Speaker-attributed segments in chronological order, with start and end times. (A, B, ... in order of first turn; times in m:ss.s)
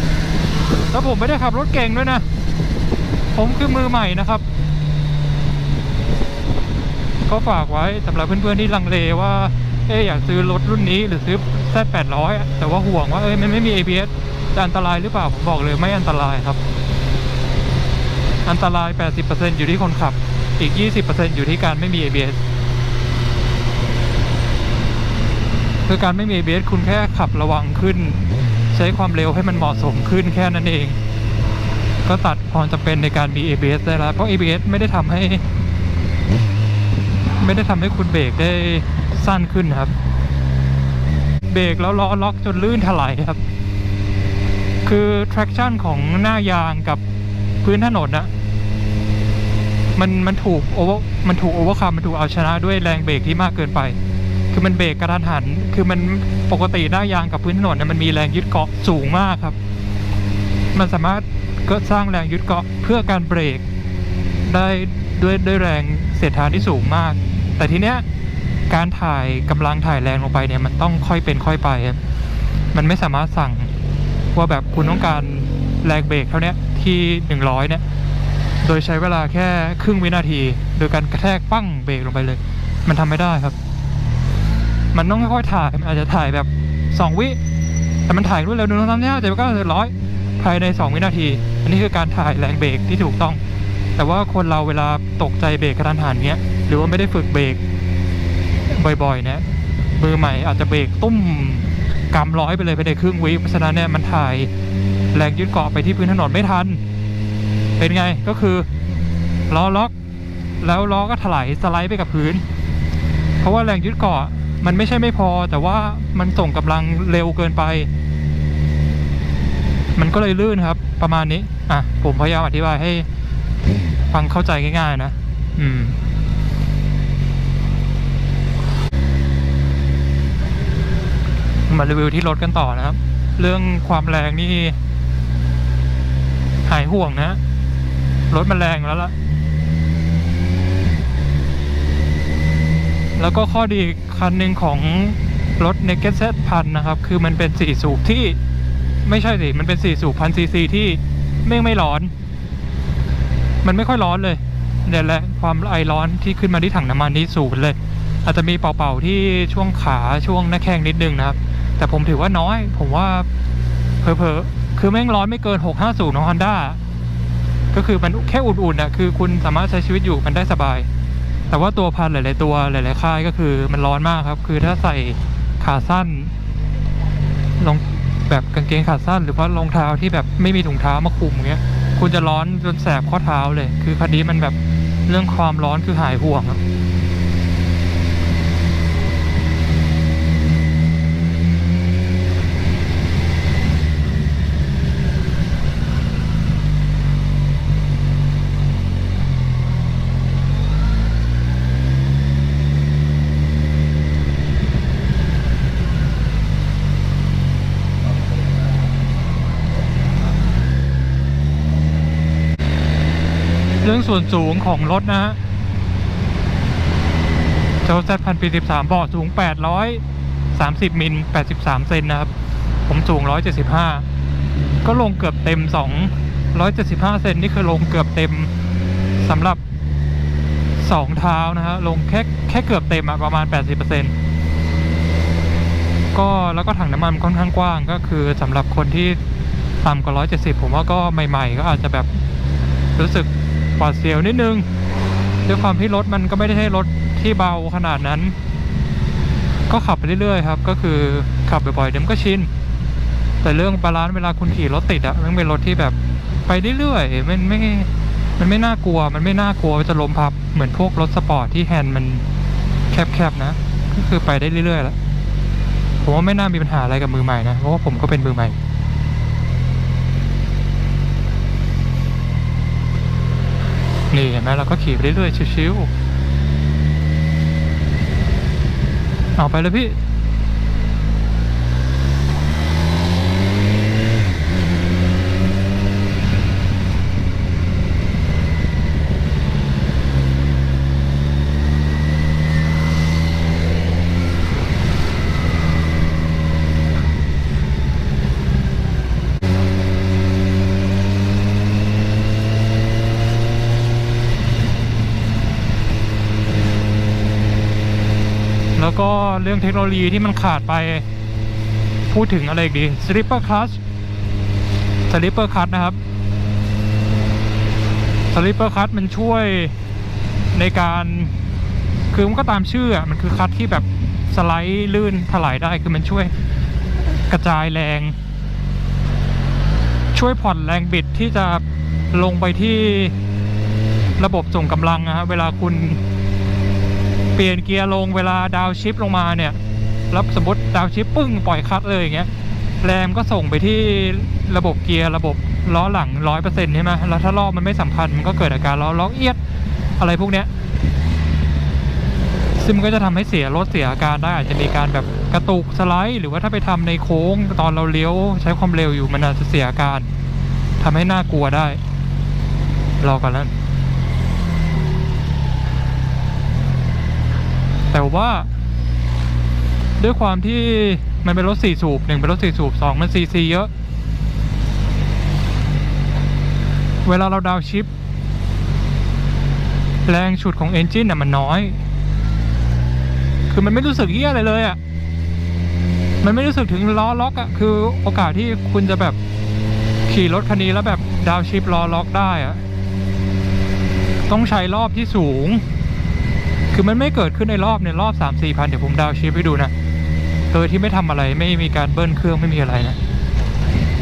0:00.9-0:02.2 A
0:03.3-0:04.4 A
0:07.2-0:16.6 A
0:18.4-0:22.4 A
0:25.9-0:28.2 A
0:28.7-0:31.0 A
0:32.0-0:35.4 A
0:37.4-0:39.9 A
0:41.5-0:43.4 A
0:44.8-0:47.0 A
0:47.6-0:48.3 A
0:50.0-0:54.0 A
0:54.5-0:59.6 A
1:00.7-1:03.6 A
1:04.4-1:08.0 A
1:08.7-1:12.0 A
1:12.7-1:13.7 A
1:14.3-1:17.8 A
1:18.6-1:23.6 A
1:24.9-1:27.4 A
1:28.1-1:33.4 A
1:34.0-1:37.6 A
1:38.7-1:39.5 A
1:40.0-1:44.5 A
1:45.1-1:46.8 A
1:47.8-1:48.7 A
1:49.5-1:49.9 A
1:50.6-1:52.4 A
1:53.4-1:57.9 A
2:00.0-2:03.1 A
2:04.1-2:06.0 A
2:11.7-2:14.8 A
2:16.6-2:17.4 A
2:18.3-2:19.1 A
2:23.2-2:28.4 A
2:29.0-2:32.1 A
2:33.6-2:43.3 A
2:44.0-2:46.8 A
2:47.7-2:50.9 A
2:51.5-2:56.3 A
2:57.6-3:06.6 A
3:33.8-3:35.4 A
3:37.8-3:40.0 A
3:40.5-3:42.3 A
3:42.8-3:44.0 A
3:44.8-3:48.5 A
3:49.2-3:49.6 A
3:50.8-3:54.1 A
3:56.1-3:59.2 A
3:59.8-4:02.1 A
4:03.0-4:04.6 A
4:05.4-4:08.3 A
4:09.7-4:12.5 A
4:13.4-4:22.2 A
4:22.9-4:25.0 A
4:26.0-4:28.6 A
4:34.1-4:35.9 A
4:39.4-4:40.0 A
5:08.8-5:11.0 A
5:12.1-5:13.8 A
5:15.1-5:16.0 A
5:18.3-5:19.7 A
5:20.5-5:21.3 A
5:22.1-5:26.3 A
5:27.3-5:28.2 A
5:30.1-5:33.1 A
5:34.2-5:36.0 A
5:37.3-5:39.6 A
5:40.1-5:42.3 A
5:42.8-5:49.4 A
5:50.0-5:50.5 A
5:52.6-6:00.1 A
6:00.8-6:01.8 A
6:03.0-6:03.5 A
6:07.9-6:08.5 A
6:10.0-6:13.7 A
6:17.0-6:17.9 A
6:20.0-6:21.8 A
6:23.5-6:24.8 A
6:26.2-6:29.2 A
6:30.1-6:32.6 A
6:34.3-6:35.6 A
6:36.7-6:39.7 A
6:40.5-6:43.0 A